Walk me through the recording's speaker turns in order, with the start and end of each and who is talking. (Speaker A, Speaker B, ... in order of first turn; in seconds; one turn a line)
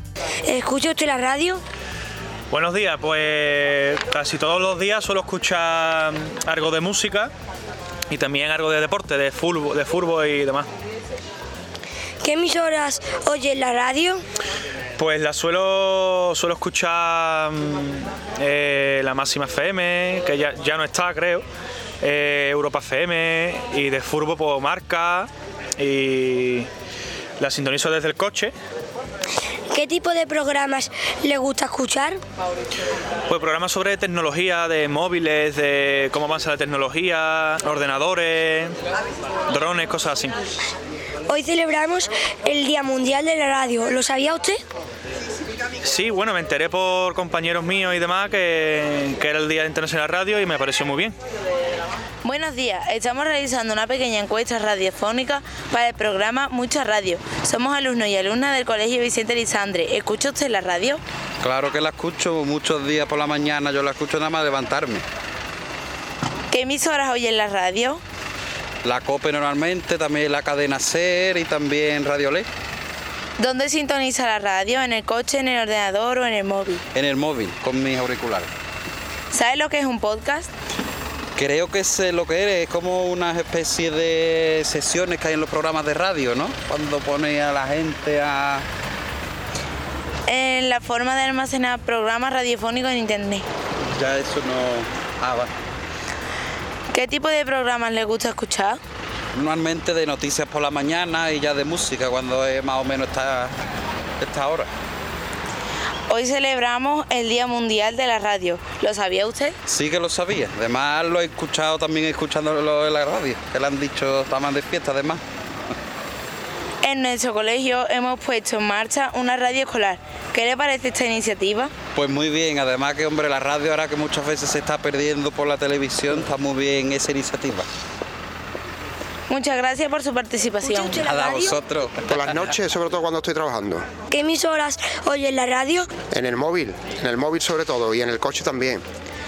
Speaker A: 0.5-1.6
Speaker B: 2.5-7.3
Speaker B: 8.1-10.7
Speaker A: 12.2-14.2
Speaker B: 15.0-21.5
Speaker B: 22.0-26.7
Speaker B: 27.4-28.5
Speaker A: 29.7-32.2
Speaker B: 33.3-38.7
Speaker B: 39.5-40.4
Speaker A: 41.3-44.6
Speaker B: 45.8-51.1
Speaker C: 52.2-61.0
Speaker D: 61.4-65.0
Speaker C: 66.5-68.0
Speaker D: 68.8-72.5
Speaker C: 73.4-76.8
Speaker D: 76.9-78.5
Speaker C: 79.3-80.5
Speaker D: 81.4-88.7
Speaker C: 90.3-93.5
Speaker D: 93.9-95.5
Speaker C: 96.9-98.8
Speaker D: 99.3-103.5
Speaker D: 104.2-104.7
Speaker C: 106.1-109.5
Speaker D: 109.7-115.2
Speaker C: 116.8-121.7
Speaker D: 121.9-127.7
Speaker C: 129.3-131.1
Speaker D: 131.0-132.3
Speaker E: 132.1-133.9
Speaker A: 134.1-135.9
Speaker E: 136.1-138.8